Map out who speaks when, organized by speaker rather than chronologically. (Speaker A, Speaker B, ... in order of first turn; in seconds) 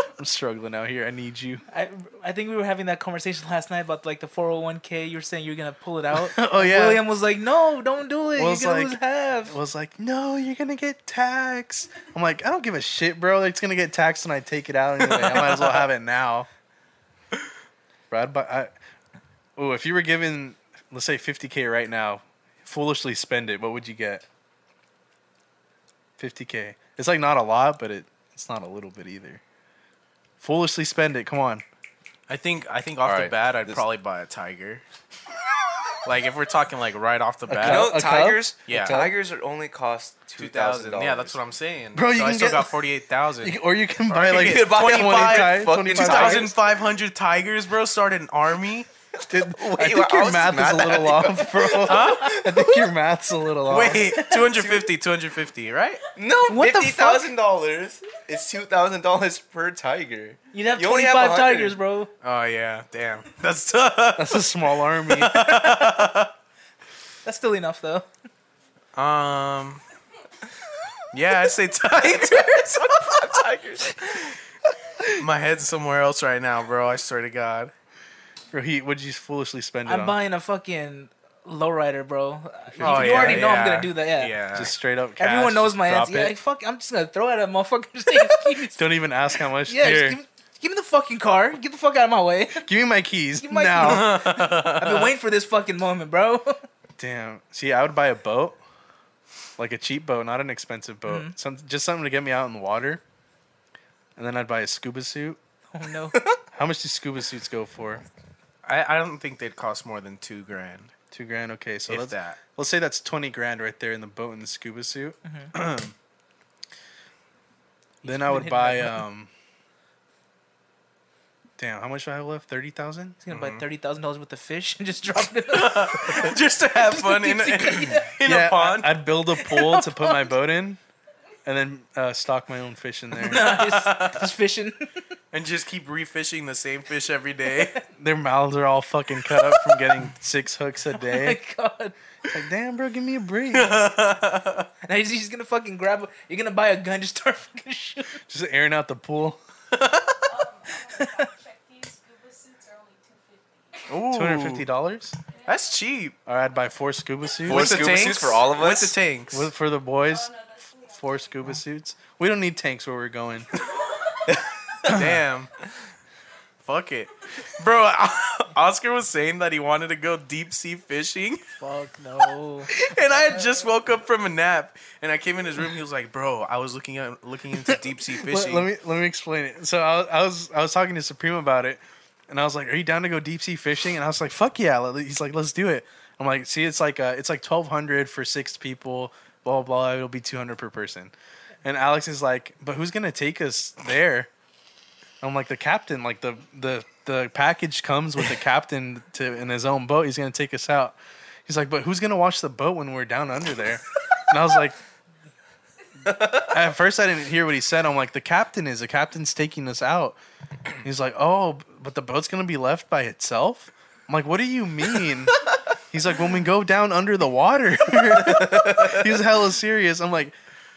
Speaker A: 0.2-1.6, 6.2-7.0, 8.4-16.5, 18.1-18.7, 19.6-24.2, 26.2-29.4, 30.4-31.6, 37.5-39.1, 41.9-42.8, 43.4-46.5, 49.3-54.2, 64.2-65.7, 78.5-80.2, 82.7-83.6, 84.5-86.4, 88.6-90.2, 92.6-94.3, 97.0-98.6, 99.6-103.0, 104.2-105.4, 106.5-108.0, 111.1-115.9, 118.0-119.3, 121.6-123.2, 128.2-130.8, 131.4-133.6, 138.0-141.4, 142.3-143.8, 148.3-149.4, 154.1-155.2, 156.3-158.0, 159.3-160.3, 160.9-163.5, 177.7-191.1, 191.6-194.3, 195.2-204.8, 206.1-210.2, 210.8-220.3
Speaker B: 1.7-9.6, 56.5-57.3, 60.5-62.1, 67.2-68.1, 79.9-84.4, 85.2-89.0, 89.6-92.7, 93.4-96.6, 101.1-101.3, 105.7-106.2, 115.2-115.5, 118.0-119.0, 123.2-128.2, 129.3-130.3, 133.2-135.0, 140.9-142.0, 144.8-148.2, 151.0-151.3, 171.6-172.7
Speaker C: 32.3-34.8, 36.0-38.0, 38.7-39.0, 40.4-43.6, 44.1-48.9, 51.8-52.5, 53.7-56.0, 62.2-66.3, 69.0-69.8, 71.1-73.0, 75.1-77.7, 82.8-84.7, 93.8-95.1, 108.6-110.9, 111.9-112.4, 123.3-123.6, 125.5-129.0, 133.3-134.3, 135.3-137.8, 143.5-144.7, 149.7-150.3, 153.9-154.7, 155.5-156.2, 157.4-159.5, 164.8-165.5, 166.6-171.5, 172.7-178.7
Speaker D: 33.0-33.8, 37.6-41.4, 44.1-46.5, 49.5-52.7, 54.0-54.9, 56.1-61.8, 72.0-74.4, 157.5-159.0, 218.2-219.0
Speaker E: 150.3-154.0, 155.3-155.7, 160.0-161.6, 163.7-164.4